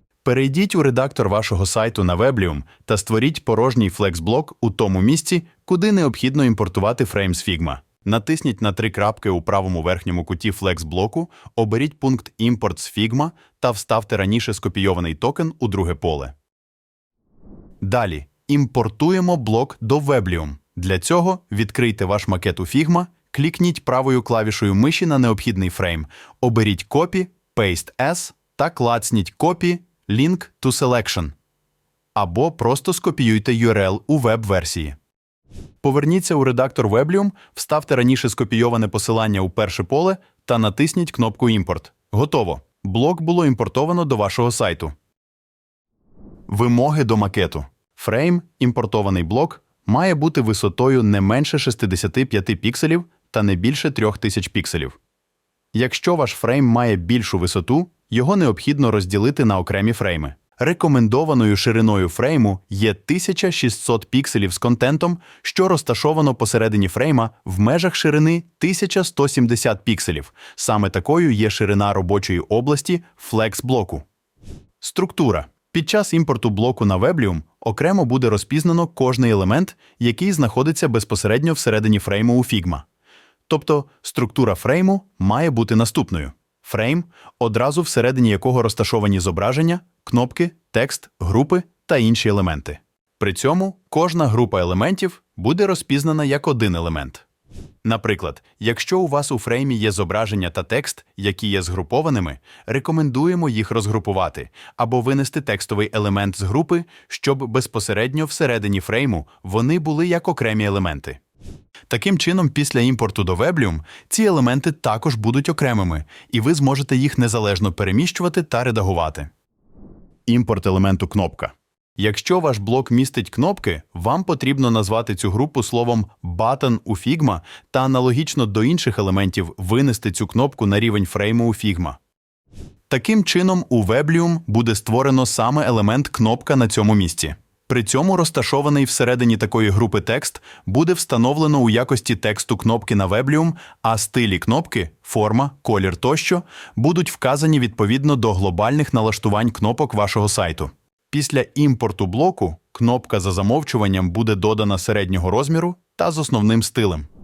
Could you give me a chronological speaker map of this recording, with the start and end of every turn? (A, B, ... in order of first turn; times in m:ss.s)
0:00.2-0:16.3 A
0:17.8-0:31.3 A
0:32.2-0:35.0 A
0:35.8-0:44.9 A
0:46.5-0:55.0 A
0:55.7-1:14.0 A
1:14.8-1:22.8 A
1:23.5-1:37.2 A
1:37.8-1:51.2 A
1:51.9-1:59.3 A
2:00.3-2:12.0 A
2:12.9-2:37.1 A